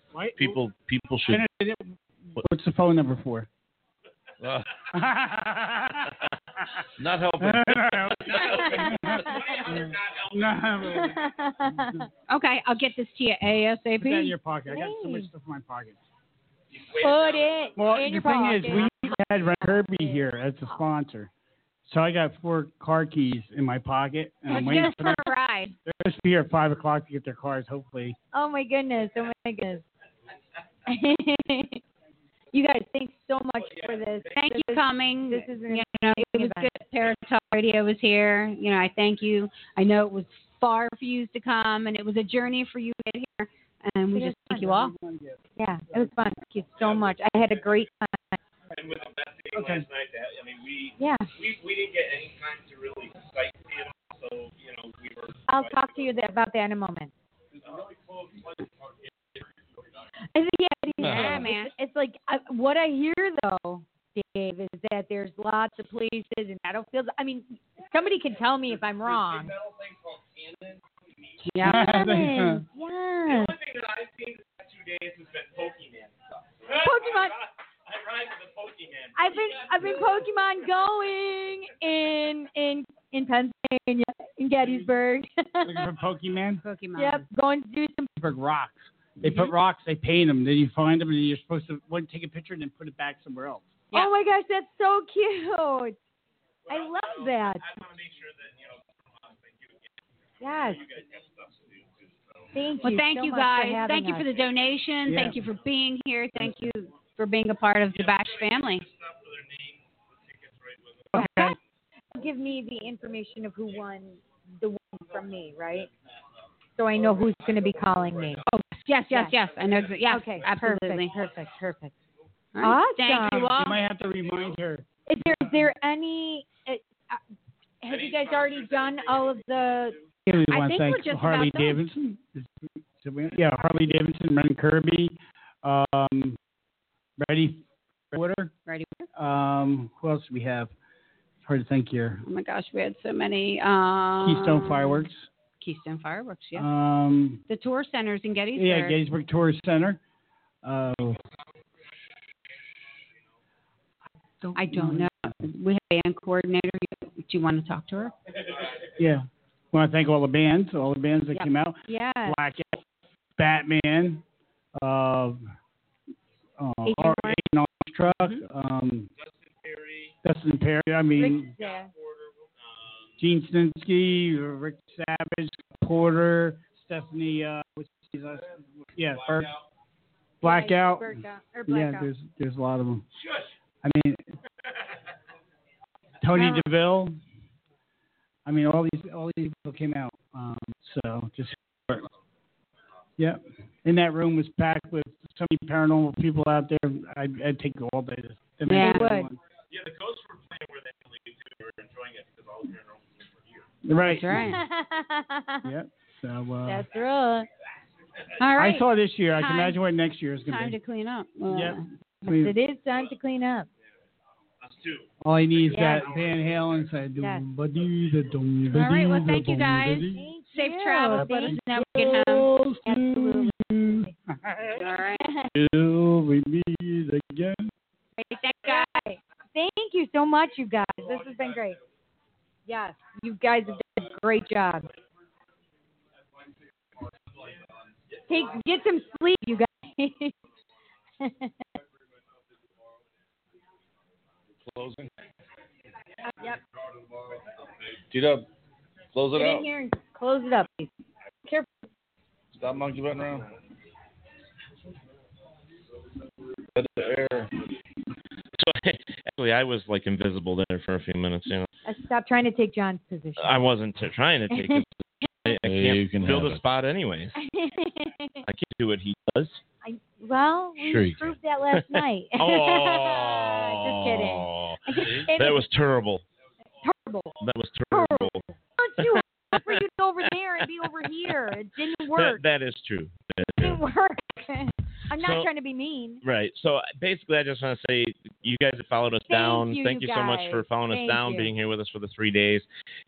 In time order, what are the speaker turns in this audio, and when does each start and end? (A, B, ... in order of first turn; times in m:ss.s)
0:00.1-0:00.6 A
0:00.4-0:01.4 B
0:01.3-0:03.5 A
0:04.9-0:06.1 A
0:07.0-0:08.4 B
0:07.4-0:09.2 A
0:08.2-0:10.9 C
0:08.5-0:09.5 D
0:09.7-0:12.0 A
0:10.9-0:12.0 D
0:12.3-0:14.4 E
0:14.0-0:16.0 A
0:14.7-0:15.3 D
0:16.7-0:17.8 C
0:17.0-0:20.2 D
0:17.8-0:21.3 A
0:21.9-0:25.3 A
0:24.5-0:25.8 E
0:25.8-0:28.2 A
0:28.3-0:29.8 D
0:30.9-0:31.8 D
0:32.5-0:36.7 D
0:33.5-0:34.4 C
0:34.3-0:44.9 E
0:44.1-0:44.8 D
0:44.8-0:45.4 A
0:45.6-0:48.4 D
0:45.9-0:46.3 A
0:46.7-0:47.9 C
0:48.7-0:56.2 C
0:49.5-0:49.8 A
0:51.0-0:51.3 D
0:55.5-0:57.1 D
0:57.6-1:00.0 C
1:00.3-1:09.5 D
1:01.0-1:01.7 E
1:01.1-1:01.4 B
1:09.0-1:11.3 C
1:11.5-1:11.9 E
1:11.6-1:13.5 D
1:11.6-1:12.6 A
1:13.3-1:20.2 C
1:16.7-1:17.4 D
1:19.2-1:25.9 D
1:25.6-1:26.6 A
1:26.6-1:27.2 E
1:27.0-1:28.1 D
1:28.2-1:33.7 A
1:33.9-1:36.0 D
1:36.6-1:42.5 C
1:36.7-1:37.6 D
1:40.4-1:40.8 D
1:42.5-1:44.3 D
1:42.8-1:48.9 E
1:45.0-1:45.4 A
1:47.9-1:51.5 C
1:51.1-1:51.6 D
1:51.1-1:51.5 A
1:52.1-1:55.9 D
1:56.8-1:58.4 D
1:57.2-1:58.4 C
1:58.4-2:01.2 E
1:59.1-1:59.3 D
2:00.0-2:01.9 D
2:02.5-2:03.8 E
2:02.6-2:03.6 D
2:03.6-2:05.5 A
2:04.2-2:04.5 C
2:05.1-2:07.2 D
2:07.8-2:10.0 D
2:07.8-2:10.0 C
2:10.3-2:12.5 A
2:10.5-2:11.8 E
2:13.0-2:16.4 A
2:17.2-2:18.5 A
2:18.6-2:19.1 E
2:19.1-2:20.7 A
2:21.4-2:22.2 A
2:22.2-2:25.0 E
2:24.2-2:25.3 A
2:25.6-2:26.7 E
2:26.6-2:27.4 A
2:27.5-2:29.0 E
2:28.6-2:30.0 A
2:30.6-2:31.2 A
2:34.4-2:38.1 E
2:38.4-2:38.9 C
2:39.0-2:42.8 A
2:41.9-2:42.4 D
2:43.4-2:44.2 A
2:44.8-2:45.5 A
2:46.6-2:49.1 A
2:46.8-2:47.4 D
2:49.2-2:50.2 C
2:50.2-2:51.5 A
2:51.2-2:51.9 D
2:51.6-2:53.2 C
2:53.2-2:59.5 A
2:59.0-2:59.6 C
3:00.4-3:03.0 A
3:00.4-3:02.1 D
3:03.1-3:03.5 C
3:03.8-3:04.2 A
3:06.2-3:07.2 A
3:06.3-3:06.6 D
3:08.4-3:12.0 A
3:13.2-3:19.4 A
3:18.7-3:19.1 E
3:18.7-3:19.3 D
3:19.7-3:23.7 C
3:23.8-3:24.4 A
3:24.0-3:24.6 E
3:24.3-3:25.7 D
3:25.6-3:26.8 A
3:26.6-3:27.5 D
3:28.4-3:29.8 E
3:28.6-3:30.8 A
3:30.4-3:31.8 E
3:31.5-3:32.5 A
3:32.2-3:33.7 D
3:34.6-3:37.0 C
3:35.2-3:40.2 A
3:35.7-3:36.1 D
3:37.2-3:37.4 D
3:38.7-3:42.5 E
3:40.1-3:42.2 D
3:41.1-3:44.8 A
3:42.8-3:43.5 D
3:44.8-3:45.3 E
3:45.2-3:45.5 D
3:45.5-3:47.7 A
3:48.2-3:49.0 E
3:48.6-3:51.8 D
3:51.0-3:51.7 C
3:52.7-3:54.9 D
3:57.3-3:58.2 C
3:58.3-4:00.3 D
4:01.2-4:01.5 D
4:04.6-4:05.1 B
4:06.3-4:06.6 D
4:07.3-4:07.7 C
4:08.1-4:08.5 B
4:09.1-4:09.7 B
4:09.3-4:10.9 D
4:12.5-4:13.5 B
4:16.7-4:17.5 B
4:18.6-4:21.7 F
4:21.8-4:23.6 D
4:23.4-4:24.9 F
4:24.5-4:24.8 D
4:25.4-4:27.4 F
4:25.6-4:26.6 B
4:27.4-4:28.4 D
4:28.4-4:29.6 F
4:29.8-4:35.6 D
4:30.8-4:31.2 B
4:31.7-4:36.2 F
4:36.8-4:37.4 D
4:37.4-4:38.4 F
4:37.9-4:42.4 D
4:39.0-4:39.8 F
4:40.8-4:41.3 F
4:42.1-4:43.8 F
4:43.6-4:46.2 D
4:45.1-4:45.5 F
4:46.2-4:52.7 F
4:49.3-4:51.5 D